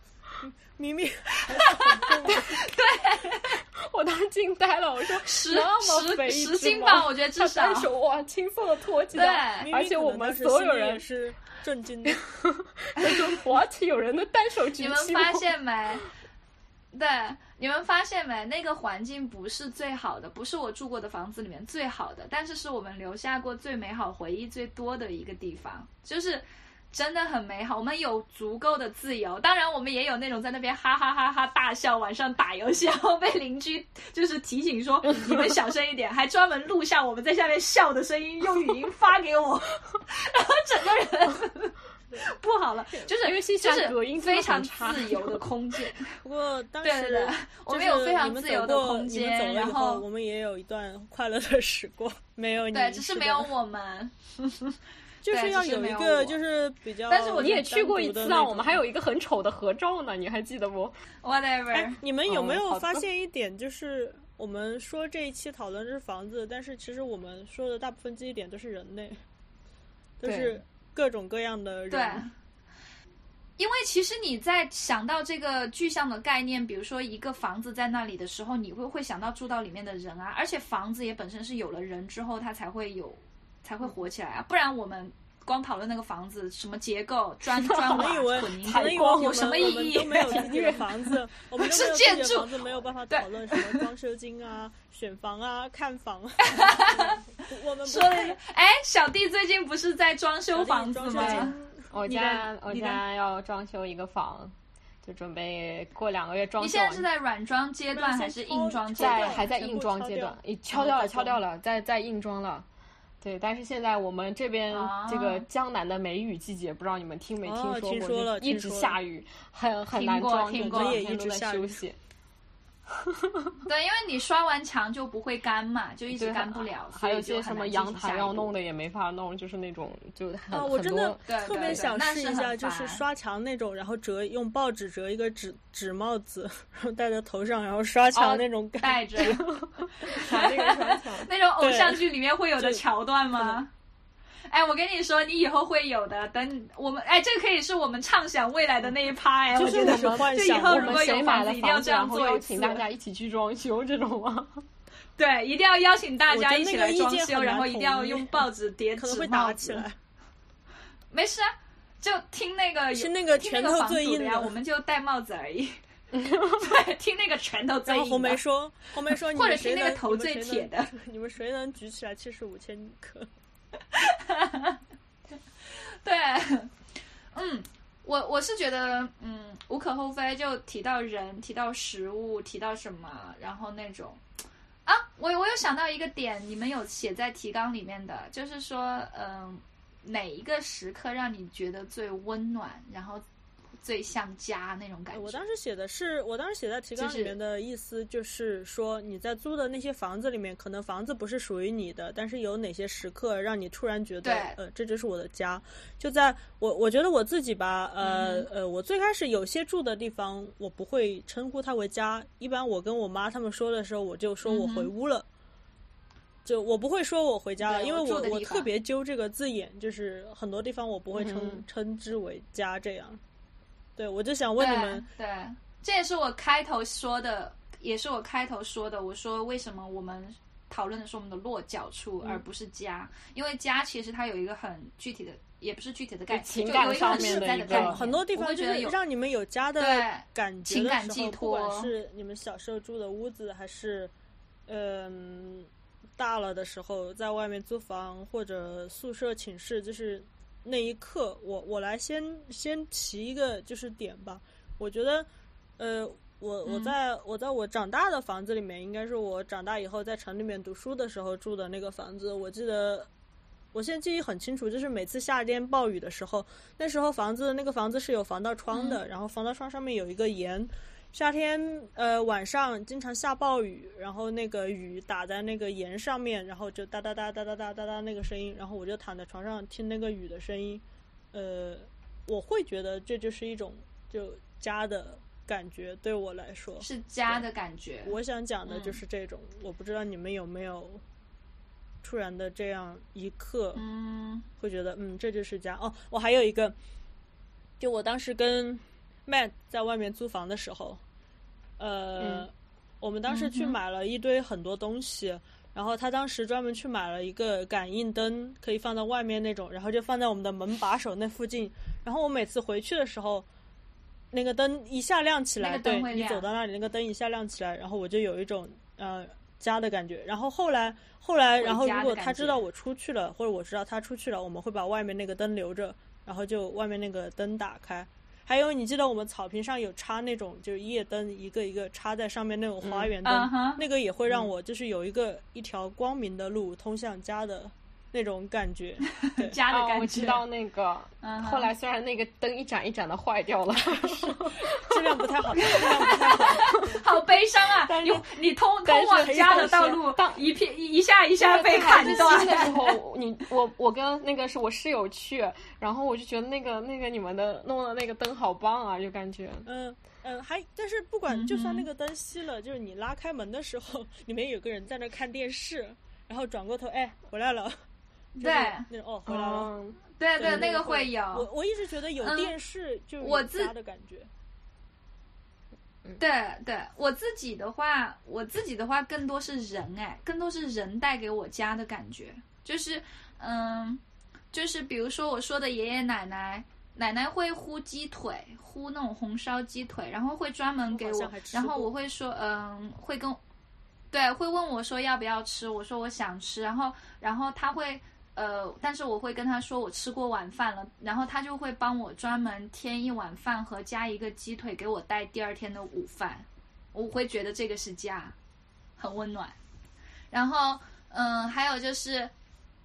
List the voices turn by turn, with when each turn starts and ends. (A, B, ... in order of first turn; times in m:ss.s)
0:00.4-0:02.6 A
0:01.4-0:03.6 B
0:03.6-0:11.0 C
0:05.2-0:07.9 B
0:09.1-0:09.7 B
0:09.6-0:12.2 A
0:12.1-0:15.5 C
0:14.8-0:16.1 B
0:16.9-0:46.1 B
0:43.1-0:45.4 C
0:46.2-0:53.5 A
0:46.8-0:50.0 B
0:52.7-0:54.7 B
0:55.2-0:58.8 A
0:55.3-0:56.4 B
0:57.1-0:57.6 B
0:57.4-1:01.0 C
1:01.2-1:02.0 B
1:01.7-1:09.2 A
1:02.3-1:03.0 C
1:10.2-1:12.3 A
1:10.2-1:10.5 C
1:11.9-1:12.3 B
1:13.6-1:30.5 B
1:27.6-1:31.0 C
1:27.8-1:38.4 A
1:31.6-1:32.5 B
1:33.1-1:33.8 B
1:36.4-1:37.2 B
1:37.8-1:41.5 B
1:40.5-1:41.9 A
1:41.1-1:47.0 C
1:42.0-1:43.0 B
1:46.6-1:49.4 B
1:47.9-1:51.4 A
1:49.0-1:52.6 C
1:53.2-2:02.0 C
1:54.7-1:55.4 B
1:57.4-1:59.0 A
1:59.9-2:01.0 B
2:00.5-2:01.8 A
2:02.9-2:03.5 C
2:03.6-2:08.5 B
2:06.1-2:11.8 C
2:10.5-2:19.4 A
2:11.2-2:13.0 B
2:18.2-2:18.4 C
2:18.8-2:19.4 B
2:19.2-2:21.3 C
2:20.0-2:23.7 B
2:21.6-2:22.0 A
2:22.6-2:23.6 A
2:24.5-2:32.8 B
2:29.5-2:31.2 A
2:29.6-2:34.6 C
2:35.2-2:39.8 B
2:36.3-2:40.0 A
2:41.1-2:45.8 B
2:42.9-2:44.6 A
2:46.1-2:46.6 C
2:46.6-2:48.4 B
2:47.9-2:53.3 A
2:49.3-2:50.9 B
2:53.9-2:54.8 B
2:55.8-2:56.7 B
2:57.3-3:04.2 B
3:04.8-3:13.2 B
3:13.8-3:15.4 B
3:15.1-3:35.2 A
3:17.0-3:17.3 B
3:24.2-3:24.6 B
3:28.0-3:28.5 B
3:34.4-3:34.9 B
3:36.4-3:43.2 A
3:37.6-3:38.7 B
3:41.1-3:41.6 C
3:44.0-3:45.0 A
3:44.6-3:58.9 B
3:56.3-3:58.0 C
3:56.9-4:04.1 A
3:59.8-4:01.9 B
4:04.7-4:23.1 A
4:16.6-4:16.9 B
4:23.7-4:47.4 A
4:28.7-4:29.0 B
4:46.8-4:48.1 B
4:48.0-4:51.0 A
4:48.7-4:49.0 B
4:52.0-4:53.8 A
4:53.7-4:54.4 B
4:54.6-4:56.8 A
4:57.8-5:01.0 A
5:01.8-5:13.4 A
5:02.2-5:02.5 C
5:03.3-5:03.8 B
5:14.3-5:39.6 A
5:15.6-5:16.5 B
5:21.6-5:22.6 B
5:32.8-5:33.1 C
5:33.2-5:33.8 B
5:39.2-5:40.4 B
5:39.7-5:45.0 C
5:41.2-5:41.7 B
5:44.8-5:47.0 A
5:45.6-5:52.9 B
5:48.8-5:50.5 C
5:49.2-5:50.0 A
5:51.4-5:59.7 C
5:52.0-5:52.7 A
5:59.6-6:07.8 A
6:01.3-6:01.9 B
6:08.4-6:08.9 B
6:08.4-6:09.7 A
6:09.2-6:10.6 C
6:10.2-6:11.5 B
6:10.4-6:14.3 A
6:12.2-6:12.5 B
6:13.2-6:13.7 B
6:16.2-6:33.4 B
6:30.9-6:31.9 A
6:34.1-6:48.4 B
6:49.0-6:49.6 B
6:50.3-6:52.3 B